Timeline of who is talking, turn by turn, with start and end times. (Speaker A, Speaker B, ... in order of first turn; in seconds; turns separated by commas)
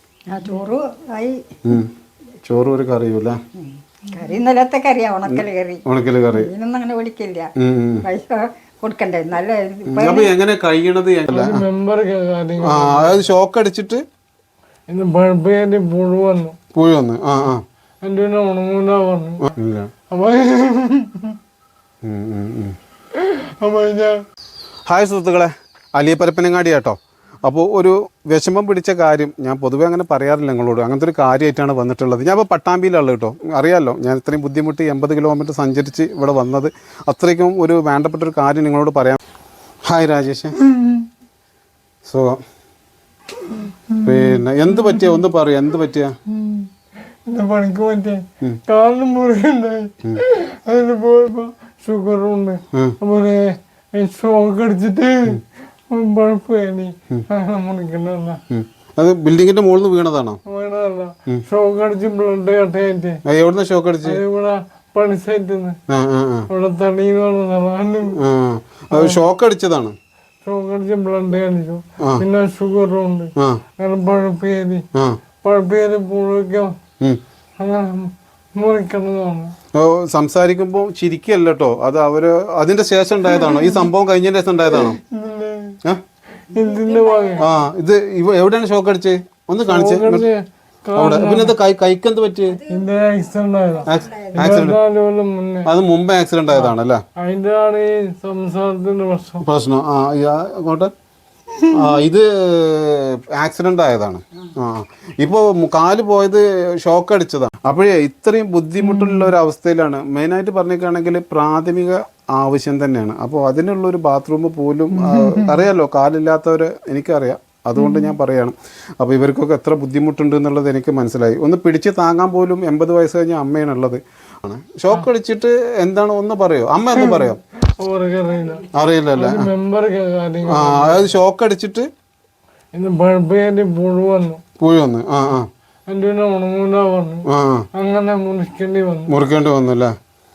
Speaker A: 0.3-1.4, Speaker B: 1.6-1.9, Speaker B: 2.5-3.4, Speaker A: 3.6-7.5, Speaker B: 5.3-6.5, Speaker B: 7.6-8.0, Speaker A: 8.0-10.3, Speaker B: 9.9-11.7, Speaker C: 11.3-13.3, Speaker B: 12.6-14.0, Speaker C: 14.9-16.6, Speaker B: 16.7-17.6, Speaker C: 18.0-19.4, Speaker B: 19.4-19.9, Speaker C: 20.1-21.4, Speaker B: 22.0-22.8, Speaker C: 23.1-24.2, Speaker B: 24.9-39.2, Speaker B: 39.9-40.6, Speaker C: 40.6-41.0, Speaker B: 42.0-42.4, Speaker C: 43.4-45.2, Speaker B: 44.0-46.1, Speaker C: 46.3-46.7, Speaker C: 47.3-58.4, Speaker B: 58.5-60.4, Speaker C: 60.5-63.2, Speaker B: 63.2-64.2, Speaker C: 64.0-65.8, Speaker B: 65.9-66.5, Speaker C: 66.5-68.2, Speaker B: 68.1-69.9, Speaker C: 68.9-69.2, Speaker C: 70.4-74.8, Speaker B: 72.0-72.2, Speaker C: 75.4-76.7, Speaker C: 77.6-79.5, Speaker B: 79.7-85.0, Speaker C: 83.2-83.9, Speaker C: 84.7-85.8, Speaker C: 86.5-87.5, Speaker A: 86.5-87.5, Speaker B: 87.4-90.3, Speaker C: 89.7-91.5, Speaker B: 91.0-92.6, Speaker A: 92.5-93.0, Speaker C: 92.7-95.7, Speaker A: 93.6-94.5, Speaker B: 93.9-94.8, Speaker B: 95.7-97.0, Speaker C: 96.5-99.4, Speaker B: 99.4-100.9, Speaker B: 101.7-127.4, Speaker C: 108.8-109.3, Speaker C: 114.9-115.6, Speaker C: 117.8-118.1, Speaker C: 126.9-131.1, Speaker B: 128.7-129.5, Speaker B: 130.4-131.9, Speaker C: 132.7-134.4, Speaker B: 134.6-135.5, Speaker C: 135.9-139.1, Speaker B: 137.3-137.7, Speaker B: 139.1-139.9